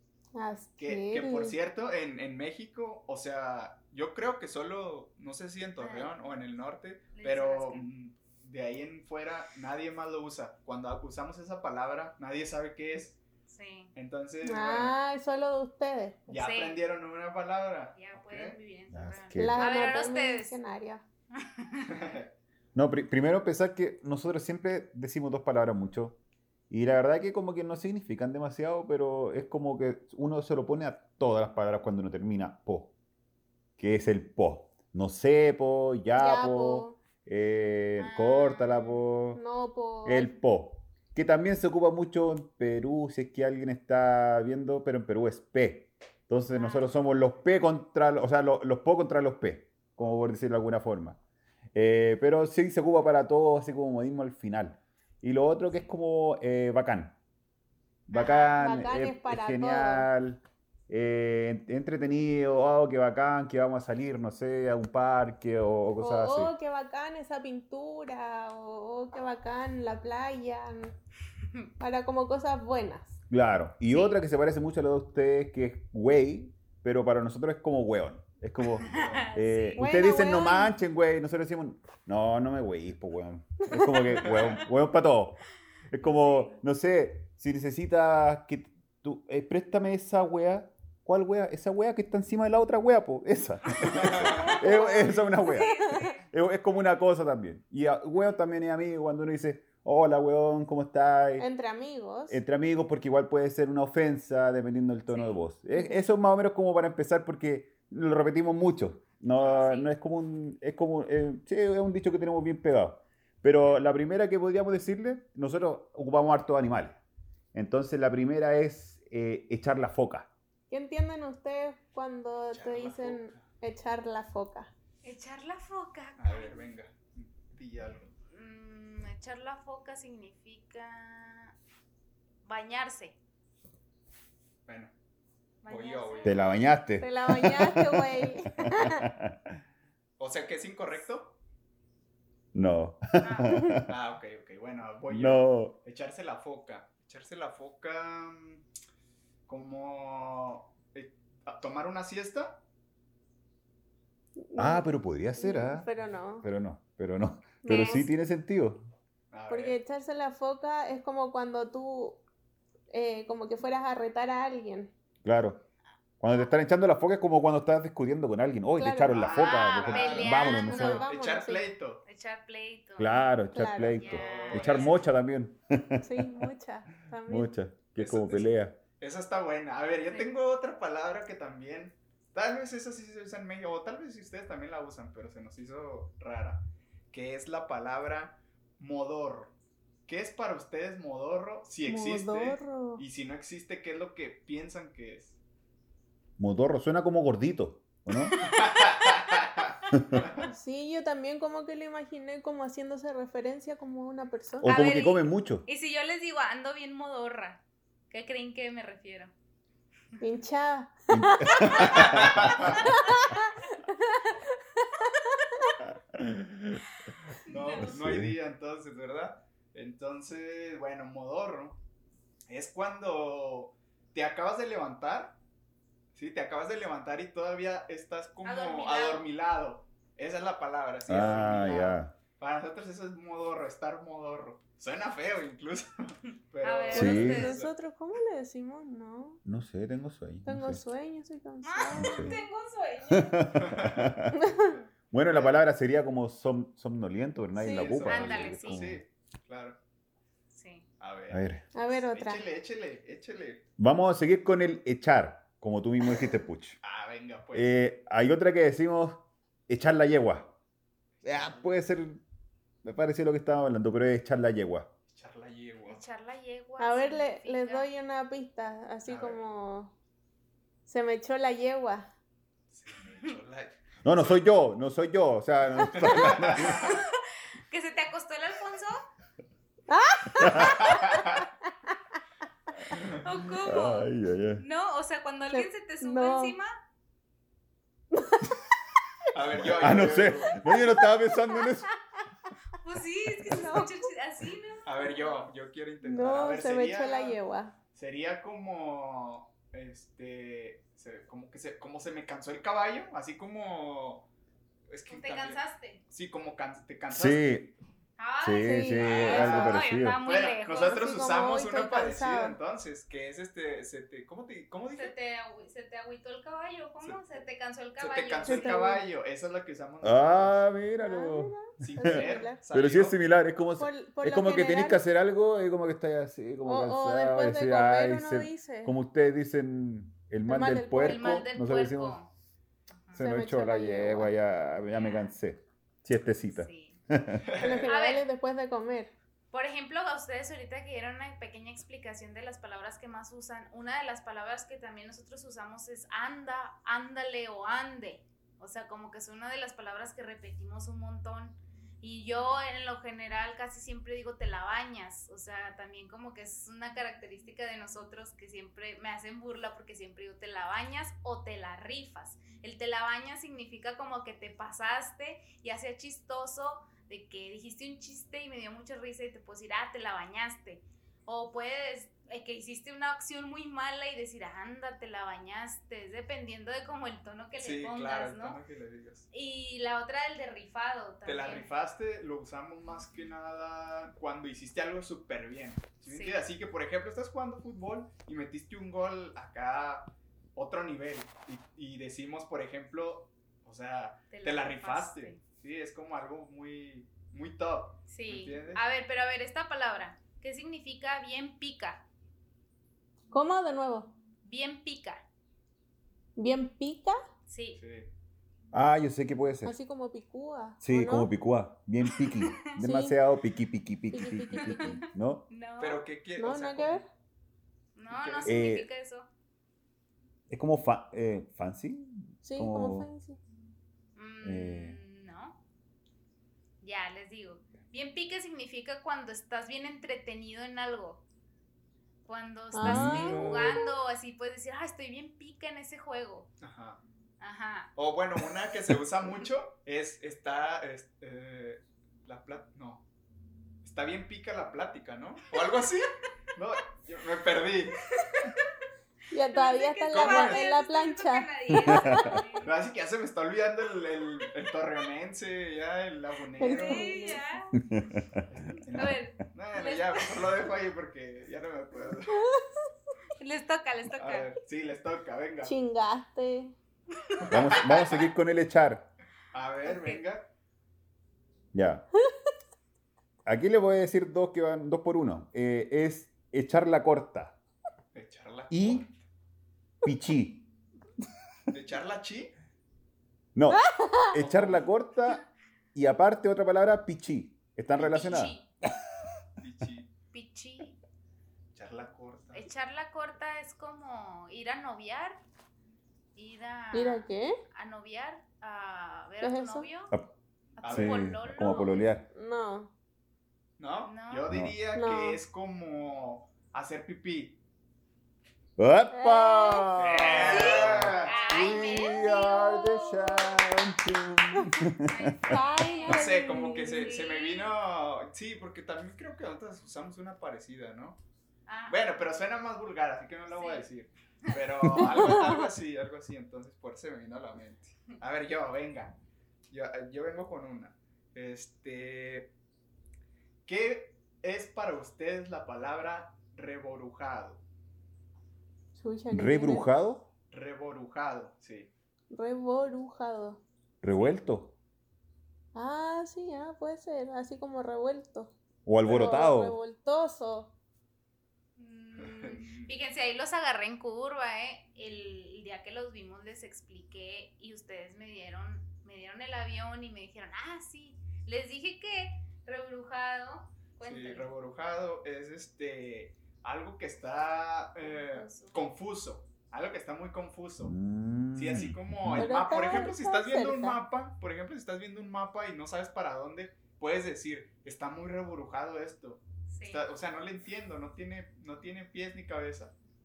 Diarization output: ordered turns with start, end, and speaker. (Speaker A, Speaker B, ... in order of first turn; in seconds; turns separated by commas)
Speaker A: 0.3-1.6, Speaker B: 0.8-13.2, Speaker C: 5.8-6.1, Speaker C: 7.1-7.9, Speaker C: 13.5-13.9, Speaker B: 13.9-14.9, Speaker A: 14.4-16.2, Speaker B: 16.3-18.6, Speaker C: 16.3-16.8, Speaker C: 17.9-20.6, Speaker D: 18.9-19.8, Speaker A: 19.4-21.0, Speaker C: 21.3-21.9, Speaker B: 21.9-22.3, Speaker D: 22.8-26.2, Speaker D: 26.7-32.9, Speaker D: 33.8-39.4, Speaker A: 36.2-37.0, Speaker C: 38.0-39.0, Speaker A: 39.4-40.3, Speaker D: 40.0-51.2, Speaker C: 46.5-46.9, Speaker D: 51.7-57.2, Speaker D: 58.1-66.5, Speaker C: 58.1-58.5, Speaker A: 58.2-60.1, Speaker A: 66.0-70.9, Speaker A: 71.8-73.2, Speaker D: 73.3-101.5, Speaker C: 73.9-74.2, Speaker B: 78.8-79.3, Speaker C: 78.8-80.0, Speaker A: 79.8-80.7, Speaker A: 83.6-84.3, Speaker B: 84.2-84.6, Speaker C: 86.0-86.5, Speaker B: 93.8-94.5, Speaker C: 94.2-96.2, Speaker A: 94.5-94.9, Speaker A: 95.4-96.1, Speaker A: 101.4-102.4, Speaker D: 102.3-117.0, Speaker C: 105.1-105.4, Speaker C: 109.4-109.9, Speaker D: 117.5-120.3, Speaker A: 120.7-124.7, Speaker B: 122.5-123.4, Speaker C: 125.0-126.7, Speaker B: 126.2-128.1, Speaker C: 128.3-131.6, Speaker C: 132.4-133.2, Speaker B: 134.7-134.9, Speaker C: 135.6-136.4, Speaker B: 135.7-136.5, Speaker D: 136.2-139.6, Speaker A: 137.0-139.1, Speaker B: 140.2-141.4, Speaker D: 142.5-143.9, Speaker C: 143.2-143.6, Speaker A: 143.5-143.8, Speaker B: 143.9-148.6, Speaker D: 145.1-145.8, Speaker B: 149.5-152.6, Speaker A: 154.5-156.5, Speaker D: 154.6-155.9, Speaker D: 156.4-158.8, Speaker A: 157.6-158.1, Speaker C: 157.7-158.0, Speaker B: 159.3-159.8, Speaker A: 159.5-162.2, Speaker A: 162.9-164.9, Speaker D: 165.2-165.6, Speaker D: 166.2-171.1, Speaker A: 168.8-169.2, Speaker B: 169.1-172.0, Speaker C: 169.3-171.1, Speaker A: 170.7-171.7, Speaker C: 172.1-173.2, Speaker D: 173.0-176.1, Speaker A: 173.5-174.0, Speaker C: 174.0-175.0, Speaker B: 174.0-174.9, Speaker A: 176.0-177.5, Speaker D: 177.3-178.8, Speaker B: 178.0-189.5, Speaker B: 190.1-195.4, Speaker A: 191.9-193.0, Speaker D: 196.4-198.4, Speaker B: 198.4-200.5, Speaker D: 199.9-200.2, Speaker A: 200.4-204.7, Speaker C: 204.6-209.3, Speaker D: 204.6-205.7, Speaker A: 210.2-211.7, Speaker D: 211.1-212.9, Speaker B: 211.7-212.9, Speaker A: 212.9-213.5, Speaker D: 216.1-216.8, Speaker C: 217.5-218.0, Speaker B: 217.5-221.8, Speaker D: 217.8-218.4, Speaker B: 222.5-225.4, Speaker B: 226.1-237.7, Speaker C: 228.4-229.3, Speaker D: 231.1-232.1, Speaker C: 236.6-237.6, Speaker A: 236.9-239.4, Speaker D: 236.9-237.4, Speaker D: 239.4-240.8, Speaker A: 240.4-242.4, Speaker C: 241.6-243.5, Speaker D: 241.9-242.4, Speaker D: 243.1-244.4, Speaker B: 243.6-245.6, Speaker A: 244.4-244.7, Speaker D: 245.1-249.0, Speaker A: 247.6-248.1, Speaker B: 247.7-249.8, Speaker C: 248.1-248.8, Speaker C: 250.5-250.9, Speaker B: 251.0-253.7, Speaker D: 251.3-251.6, Speaker A: 251.8-252.4, Speaker D: 253.8-256.8, Speaker B: 256.8-257.8, Speaker D: 257.5-260.5, Speaker B: 261.2-261.8, Speaker D: 261.2-262.2, Speaker D: 262.8-264.9, Speaker B: 265.1-266.1, Speaker C: 265.9-267.9, Speaker A: 266.8-269.9, Speaker B: 269.1-269.4, Speaker A: 270.9-272.1, Speaker B: 272.7-274.4, Speaker D: 274.0-277.0, Speaker B: 275.7-277.0, Speaker C: 276.6-279.0, Speaker A: 279.9-281.2, Speaker D: 280.4-280.8, Speaker B: 280.6-281.4, Speaker C: 283.2-286.7, Speaker D: 283.6-284.6, Speaker A: 285.5-286.6, Speaker A: 288.1-288.5, Speaker B: 289.3-290.6, Speaker D: 289.6-291.9, Speaker A: 290.7-291.0, Speaker C: 292.8-295.4, Speaker A: 293.4-293.9, Speaker B: 294.9-297.4, Speaker A: 296.0-297.8, Speaker B: 297.9-304.3, Speaker B: 304.9-307.5, Speaker C: 305.1-306.0, Speaker D: 307.1-307.7, Speaker C: 308.2-311.1, Speaker D: 308.4-310.2, Speaker A: 308.6-309.5, Speaker B: 309.0-315.1, Speaker A: 310.8-312.6, Speaker C: 314.9-318.8, Speaker B: 318.0-320.7, Speaker A: 318.5-319.1, Speaker D: 320.0-332.2, Speaker A: 321.0-322.6, Speaker B: 321.8-323.2, Speaker A: 323.8-325.0, Speaker A: 326.6-328.9, Speaker A: 330.5-331.4, Speaker C: 331.0-332.3, Speaker D: 333.1-337.5, Speaker A: 333.2-334.3, Speaker C: 334.9-335.3, Speaker C: 336.6-337.0, Speaker B: 337.4-337.9, Speaker A: 337.6-339.1, Speaker C: 337.9-338.2, Speaker C: 339.5-378.6, Speaker B: 377.6-379.3, Speaker C: 379.3-381.7, Speaker B: 381.2-398.8, Speaker C: 386.1-386.4, Speaker C: 394.3-395.4, Speaker C: 398.1-402.1, Speaker A: 403.3-404.1, Speaker C: 404.4-405.2, Speaker A: 406.4-407.2, Speaker C: 407.5-407.8, Speaker B: 407.8-408.1, Speaker D: 408.7-409.7, Speaker A: 409.6-411.3, Speaker D: 410.8-415.4, Speaker C: 412.2-412.6, Speaker A: 412.8-413.2, Speaker A: 414.1-415.0, Speaker C: 414.6-414.9, Speaker C: 415.5-416.1, Speaker B: 415.8-417.0, Speaker A: 416.4-417.1, Speaker C: 417.9-419.3, Speaker B: 418.1-418.7, Speaker D: 418.4-418.9, Speaker D: 420.5-423.1, Speaker A: 422.4-423.4, Speaker C: 424.2-425.6, Speaker D: 424.4-425.0, Speaker C: 426.8-431.2, Speaker C: 432.3-436.5, Speaker A: 432.7-433.8, Speaker D: 432.8-433.7, Speaker B: 436.6-437.0, Speaker C: 437.4-437.9, Speaker B: 438.0-443.0, Speaker B: 443.8-448.1, Speaker C: 448.1-448.6, Speaker A: 449.3-452.4, Speaker C: 449.5-452.8, Speaker B: 450.1-450.6, Speaker D: 451.9-452.3, Speaker B: 452.6-457.2, Speaker A: 456.6-457.4, Speaker C: 456.6-457.7, Speaker D: 457.8-458.4, Speaker B: 458.5-462.5, Speaker C: 458.9-460.6, Speaker A: 462.4-462.8, Speaker C: 463.4-464.5, Speaker B: 464.2-465.8, Speaker A: 465.6-466.7, Speaker B: 467.5-468.3, Speaker D: 467.5-469.1, Speaker B: 469.5-470.5, Speaker C: 469.9-470.2, Speaker D: 471.7-472.1, Speaker D: 473.4-477.6, Speaker B: 478.1-479.2, Speaker D: 478.7-479.1, Speaker D: 480.0-480.6, Speaker B: 481.7-482.5, Speaker D: 483.6-485.4, Speaker A: 483.7-484.4, Speaker B: 484.4-484.9, Speaker D: 485.9-488.6, Speaker C: 487.9-488.7, Speaker B: 489.6-490.1, Speaker C: 490.3-491.0, Speaker B: 491.7-492.7, Speaker C: 492.5-495.4, Speaker C: 496.4-500.1, Speaker A: 496.9-497.6, Speaker A: 499.4-499.9, Speaker C: 500.8-502.1, Speaker B: 500.8-501.3, Speaker D: 500.9-502.2, Speaker A: 502.3-502.9, Speaker B: 503.8-507.6, Speaker C: 504.0-504.5, Speaker D: 504.5-504.8, Speaker A: 504.9-505.4, Speaker D: 508.8-515.5, Speaker A: 509.1-509.9, Speaker B: 510.0-511.8, Speaker C: 510.4-512.6, Speaker A: 512.1-512.9, Speaker C: 515.0-517.8, Speaker A: 515.5-517.1, Speaker B: 516.1-521.2, Speaker C: 521.7-522.0, Speaker B: 521.9-529.1, Speaker C: 523.5-523.9, Speaker C: 524.4-525.3, Speaker B: 529.7-532.5, Speaker B: 533.7-537.6, Speaker A: 539.0-539.9, Speaker D: 539.3-540.3, Speaker B: 540.5-541.9, Speaker A: 542.3-543.6, Speaker D: 544.0-544.8, Speaker A: 545.8-548.5, Speaker D: 548.9-549.8, Speaker A: 549.0-550.7, Speaker C: 551.8-564.5, Speaker B: 552.2-552.9, Speaker B: 564.0-571.0, Speaker C: 568.0-568.9, Speaker D: 570.8-572.5, Speaker B: 571.5-583.0, Speaker A: 572.4-574.0, Speaker C: 579.7-580.0